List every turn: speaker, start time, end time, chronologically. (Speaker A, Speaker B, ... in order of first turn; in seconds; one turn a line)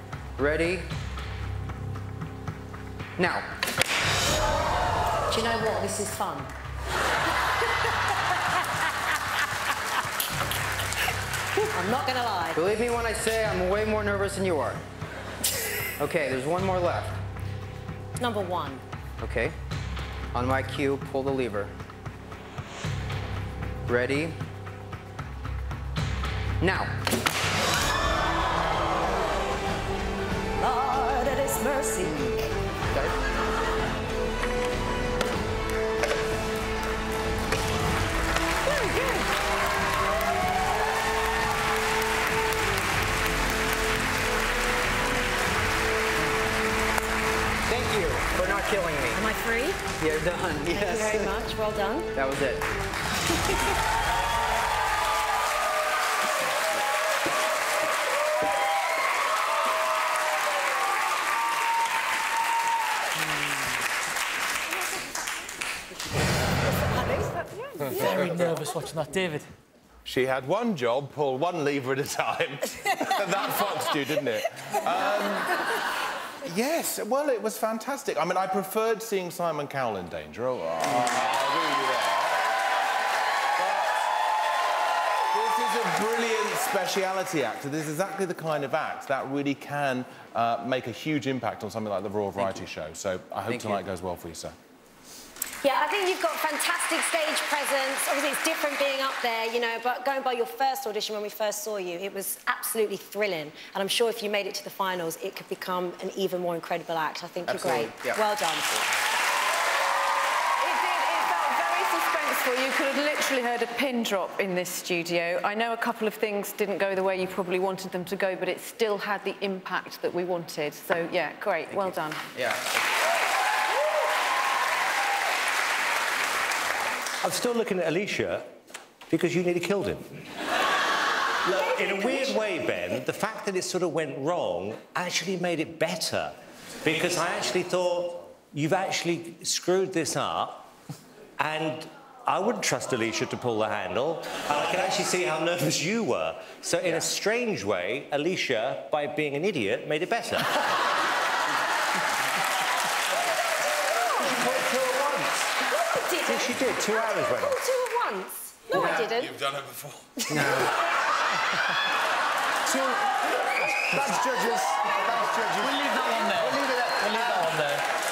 Speaker A: 0.4-0.9
Speaker A: 3.2-3.5
Speaker B: 5.3-6.5
Speaker B: 11.7-12.6
Speaker A: 12.6-14.8
Speaker A: 16.0-17.2
Speaker B: 18.2-18.8
Speaker A: 19.2-19.6
Speaker A: 20.3-21.7
Speaker A: 23.9-24.4
Speaker A: 26.6-26.9
Speaker B: 30.6-32.3
Speaker A: 47.7-49.2
Speaker B: 49.1-49.9
Speaker A: 50.0-51.3
Speaker B: 50.7-52.1
Speaker A: 52.1-52.6
Speaker C: 67.8-68.5
Speaker D: 67.9-69.5
Speaker C: 70.1-75.6
Speaker C: 76.5-82.4
Speaker C: 83.6-83.9
Speaker C: 85.3-94.5
Speaker A: 93.5-93.8
Speaker B: 95.6-108.8
Speaker A: 107.5-108.2
Speaker E: 110.6-122.3
Speaker A: 121.7-122.8
Speaker F: 127.2-128.5
Speaker F: 129.1-130.2
Speaker F: 131.4-140.7
Speaker F: 141.4-150.7
Speaker G: 154.2-155.3
Speaker B: 155.6-159.4
Speaker F: 156.3-157.6
Speaker A: 158.8-159.1
Speaker C: 159.2-160.1
Speaker B: 160.2-160.6
Speaker A: 160.3-160.7
Speaker G: 162.6-167.7
Speaker D: 165.6-167.8